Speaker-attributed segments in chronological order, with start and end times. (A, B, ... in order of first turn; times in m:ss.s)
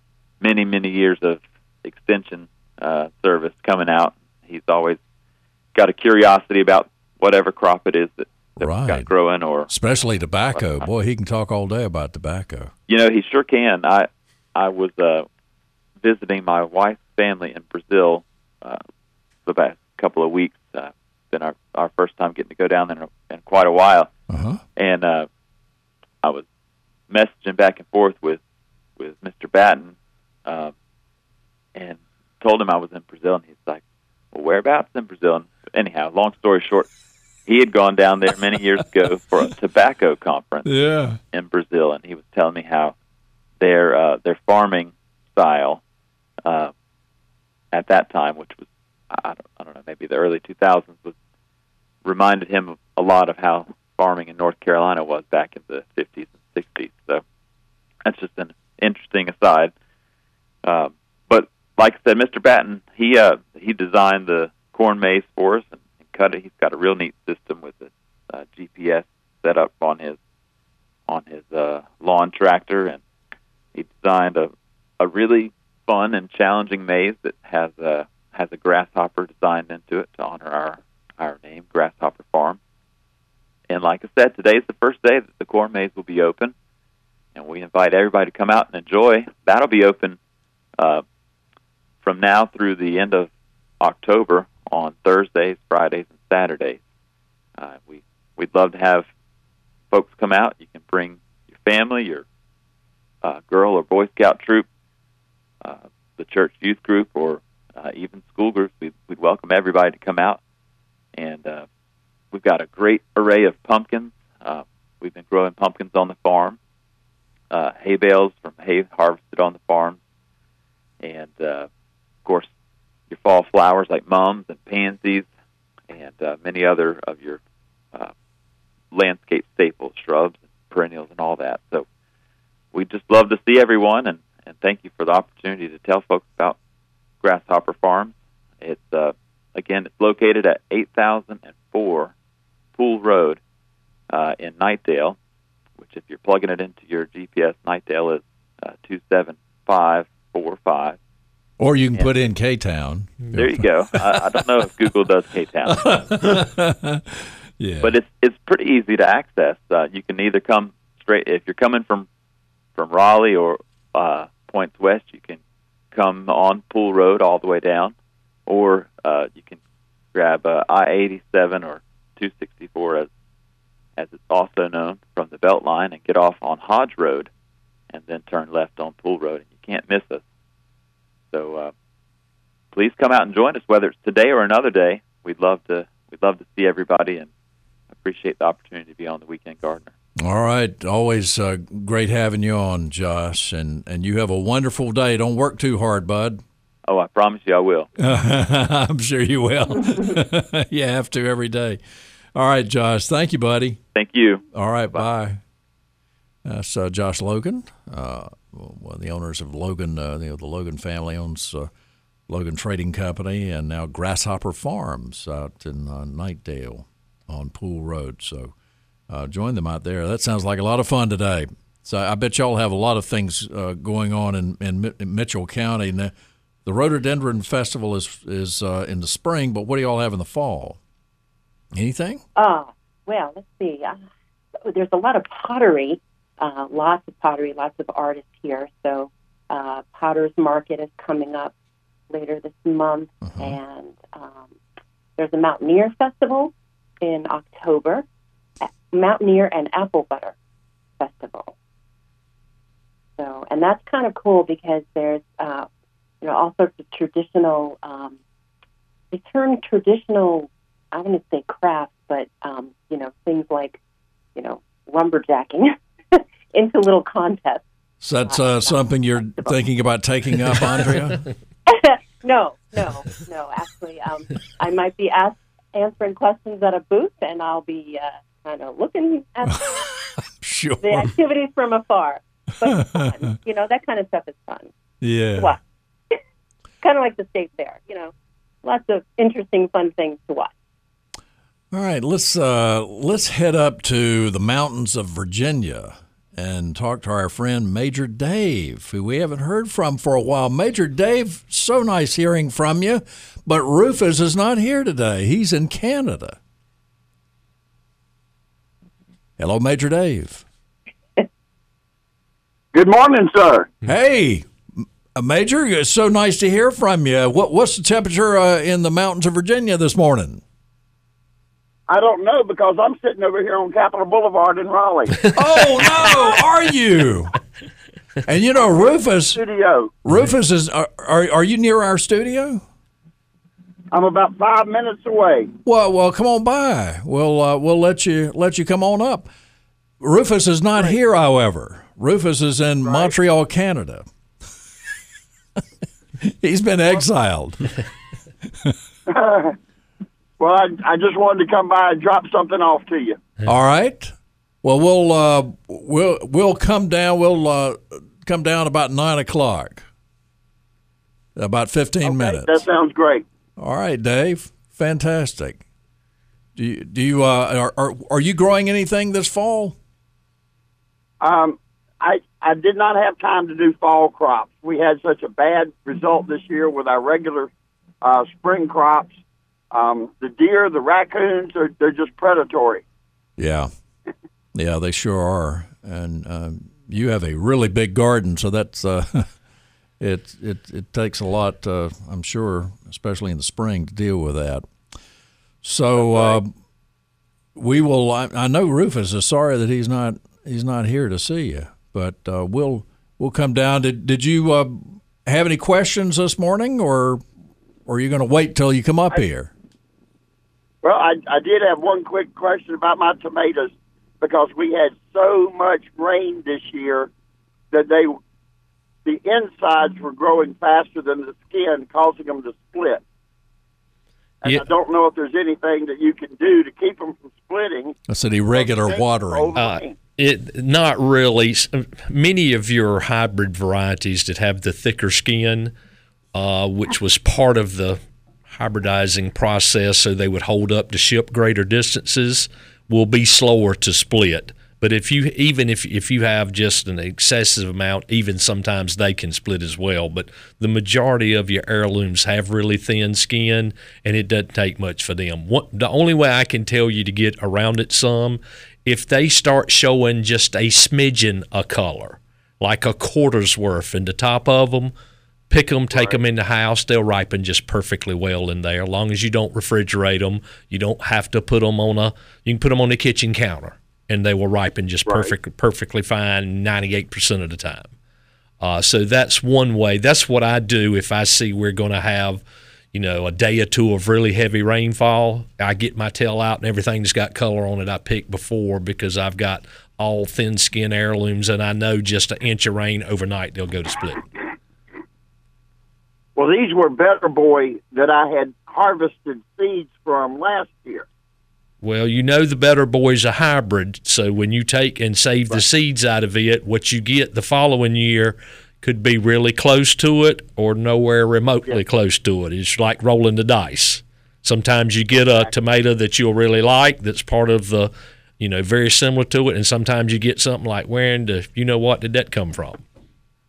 0:00.4-0:05.0 A
0:05.8-0:09.7 A
0:08.6-0:09.1 B
0:09.7-0:12.7 B
0:10.6-0:10.8 A
0:12.9-0:15.3 A
0:16.0-0:18.8 A
0:19.5-0:24.1 A
0:24.3-0:24.6 B
0:24.8-0:25.3 A
0:27.1-0:28.4 A
0:29.0-0:30.0 A
0:30.5-0:30.7 A
0:31.8-0:36.9 A
0:37.5-0:40.7 A
0:40.6-0:41.2 B
0:41.3-0:43.0 A
0:43.6-0:45.8 A
0:46.4-0:46.7 A
0:47.7-0:51.1 A
0:52.0-0:57.2 A
0:58.1-0:59.7 A
1:00.6-1:10.2 A
1:11.1-1:13.0 A
1:13.7-1:22.6 A
1:23.7-1:26.5 A
1:27.4-1:30.2 A
1:30.8-1:31.0 A
1:32.0-1:36.8 A
1:37.6-1:39.1 A
1:39.9-1:42.2 A
1:43.2-1:44.6 A
1:45.6-1:50.4 A
1:51.2-1:51.6 A
1:52.3-1:56.6 A
1:57.5-2:00.0 A
2:01.0-2:01.7 A
2:03.1-2:05.3 A
2:05.9-2:07.4 A
2:08.9-2:11.9 A
2:12.7-2:16.6 A
2:17.2-2:22.1 A
2:22.8-2:23.4 A
2:24.1-2:25.2 A
2:25.8-2:31.0 A
2:31.6-2:34.2 B
2:33.4-2:36.0 A
2:35.6-2:37.9 B
2:37.8-2:42.1 A
2:42.8-2:45.4 A
2:45.9-2:47.9 A
2:48.5-2:49.6 A
2:50.1-2:53.1 A
2:54.0-2:57.3 A
2:57.9-3:00.2 A
3:01.3-3:01.7 A
3:02.7-3:07.3 A
3:07.9-3:09.9 A
3:10.2-3:16.4 B
3:16.9-3:17.9 A
3:18.0-3:21.8 B
3:22.4-3:23.8 B
3:23.9-3:25.0 A
3:24.5-3:25.4 B
3:26.4-3:31.7 B
3:32.3-3:38.5 B
3:39.1-3:46.1 B
3:46.6-3:50.8 B
3:51.7-3:52.2 B
3:52.4-3:54.0 C
3:54.6-4:01.5 C
4:02.1-4:04.5 C
4:03.2-4:03.6 B
4:05.2-4:08.1 C
4:08.6-4:10.4 C
4:11.0-4:11.5 C
4:13.2-4:15.7 C
4:16.2-4:18.2 C
4:19.1-4:23.8 C
4:24.4-4:27.6 C
4:28.0-4:31.2 B
4:28.2-4:29.6 C
4:31.7-4:39.8 C
4:39.5-4:41.1 B
4:40.8-4:44.7 C
4:45.0-4:45.6 B
4:46.8-4:48.1 C
4:48.6-4:50.5 C
4:51.7-5:06.4 B
5:09.4-5:10.4 B
5:12.7-5:13.7 D
5:13.8-5:20.4 B
5:21.9-5:25.3 D
5:25.3-5:27.4 B
5:28.3-5:29.4 B
5:29.3-5:29.9 D
5:30.0-5:32.6 B
5:33.9-5:35.5 D
5:35.6-5:39.3 B
5:40.0-5:44.1 B
5:42.8-5:43.1 D
5:46.2-5:47.8 B
5:49.1-5:49.6 D
5:50.4-5:53.2 D
5:53.5-5:59.9 B
6:01.4-6:02.6 B
6:02.0-6:03.2 D
6:03.6-6:05.6 B
6:06.6-6:09.8 B
6:11.2-6:17.5 D
6:18.0-6:19.2 D
6:19.7-6:22.8 D
6:23.4-6:23.7 B
6:24.5-6:29.3 B
6:30.0-6:34.7 B
6:35.6-6:36.5 B
6:36.0-6:36.4 D
6:37.6-6:47.2 B
6:47.9-6:49.5 B
6:50.8-6:57.1 D
6:57.7-6:58.2 D
6:59.0-7:03.0 D
7:04.4-7:08.0 D
7:08.1-7:09.5 B
7:08.6-7:10.0 D
7:09.6-7:15.7 E
7:16.3-7:44.9 E
7:45.5-7:57.9 E
7:45.9-7:46.2 D
7:55.1-7:55.4 D
7:58.6-8:02.4 E
8:02.9-8:14.3 E
8:16.4-8:21.1 D
8:21.8-8:42.8 E
8:35.1-8:35.5 D